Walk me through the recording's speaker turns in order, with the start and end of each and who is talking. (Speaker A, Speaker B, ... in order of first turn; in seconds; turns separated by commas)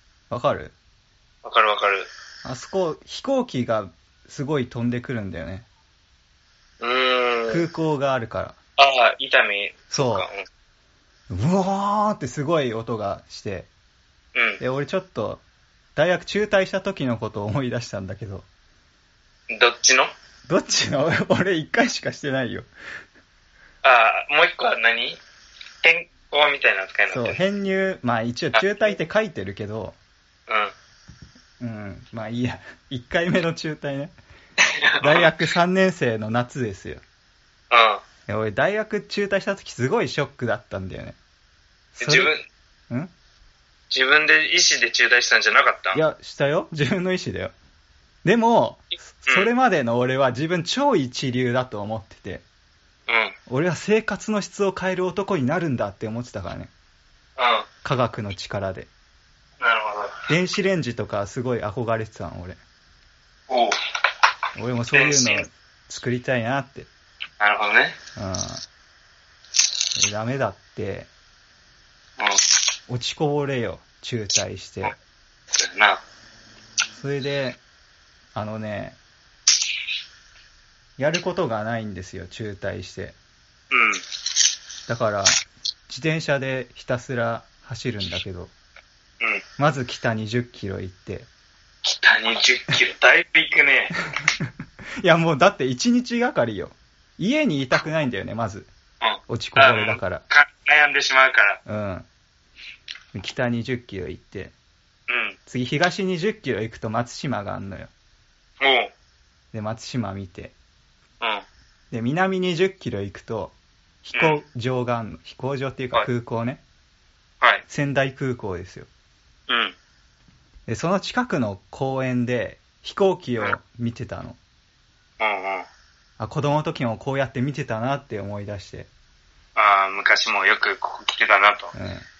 Speaker A: 0.3-0.7, Speaker B: 1.4-2.1, Speaker A: 2.4-5.7, Speaker B: 6.8-7.6, Speaker A: 7.5-8.6, Speaker B: 8.8-10.4, Speaker A: 9.9-10.3, Speaker A: 11.3-13.7, Speaker B: 14.3-14.6, Speaker A: 14.6-15.4, Speaker A: 15.9-18.4, Speaker B: 19.5-20.1, Speaker A: 20.5-22.7, Speaker B: 23.8-25.2, Speaker B: 25.8-27.4, Speaker A: 27.1-30.0, Speaker B: 30.5-30.7, Speaker A: 31.6-34.1, Speaker B: 34.8-35.3, Speaker A: 35.0-37.0, Speaker B: 37.7-38.0, Speaker A: 38.3-41.2, Speaker A: 42.0-42.3, Speaker B: 42.0-42.4, Speaker B: 43.9-46.0, Speaker A: 45.9-47.5, Speaker A: 48.2-52.4, Speaker B: 53.1-53.4, Speaker A: 53.5-56.7, Speaker B: 57.4-57.6, Speaker A: 57.8-58.9, Speaker B: 59.6-60.3, Speaker A: 60.3-62.6, Speaker B: 63.5-63.8, Speaker A: 64.5-66.9, Speaker B: 64.9-65.4, Speaker B: 67.4-68.0, Speaker A: 68.2-68.6, Speaker A: 70.0-71.1, Speaker A: 72.9-74.9, Speaker B: 75.5-76.0, Speaker A: 77.0-77.6, Speaker A: 78.3-79.0, Speaker A: 81.0-83.2, Speaker B: 83.7-84.0, Speaker A: 84.9-88.5, Speaker A: 89.6-91.3, Speaker B: 91.8-93.9, Speaker A: 95.0-98.7, Speaker B: 99.0-101.6, Speaker A: 99.3-100.2, Speaker A: 101.7-102.1, Speaker A: 103.1-104.5, Speaker B: 105.1-105.4, Speaker A: 105.5-107.9, Speaker B: 108.6-108.9, Speaker A: 109.5-110.5, Speaker A: 111.9-116.6, Speaker B: 114.1-114.4, Speaker A: 117.7-118.9, Speaker B: 119.5-119.8, Speaker A: 120.7-124.4, Speaker B: 125.2-125.7, Speaker A: 126.2-128.9, Speaker B: 129.6-131.7, Speaker A: 131.7-132.0